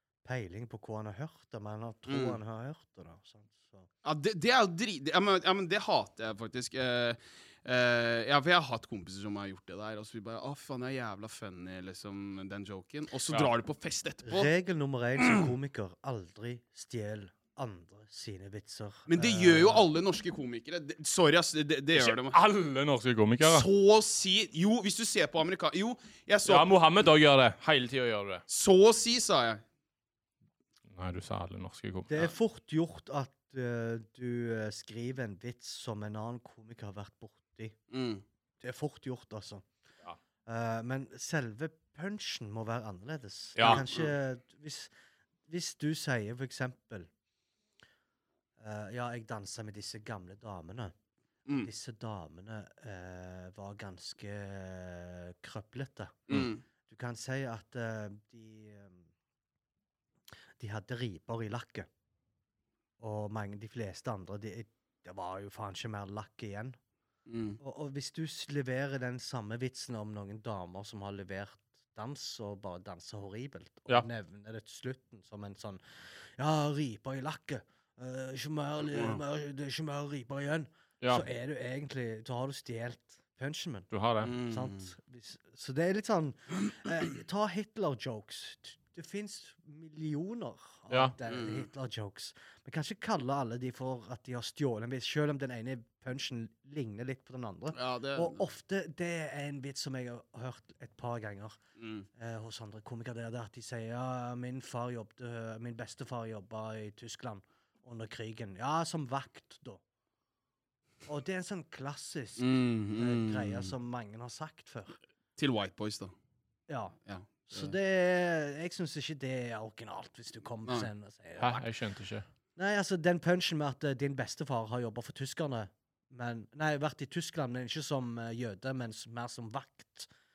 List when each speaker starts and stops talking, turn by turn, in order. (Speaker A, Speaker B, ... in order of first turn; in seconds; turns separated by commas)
Speaker A: 0.2-3.9, Speaker B: 2.1-2.4, Speaker B: 4.0-14.5, Speaker A: 14.2-19.9, Speaker B: 19.1-22.4, Speaker C: 21.9-23.7, Speaker B: 23.4-26.7, Speaker C: 26.4-28.4, Speaker B: 28.5-29.6, Speaker C: 30.9-32.3, Speaker A: 32.1-37.8, Speaker B: 37.9-38.2, Speaker A: 38.6-39.6, Speaker A: 40.5-44.9, Speaker C: 43.5-43.8, Speaker B: 43.6-44.1, Speaker A: 45.5-47.1, Speaker A: 48.6-50.9, Speaker A: 51.6-59.1, Speaker B: 56.3-56.6, Speaker A: 60.6-61.9, Speaker A: 63.0-66.8, Speaker B: 67.3-67.6, Speaker A: 67.6-101.6, Speaker B: 78.9-79.2, Speaker C: 83.9-84.3, Speaker B: 84.2-84.9, Speaker B: 91.3-91.7, Speaker B: 97.7-98.4, Speaker B: 101.8-102.1, Speaker A: 102.2-109.8, Speaker A: 111.0-115.0, Speaker B: 112.4-113.7, Speaker B: 115.4-116.1, Speaker A: 116.7-117.0, Speaker B: 117.1-117.7, Speaker A: 117.5-121.7, Speaker C: 121.4-122.2, Speaker A: 122.5-130.1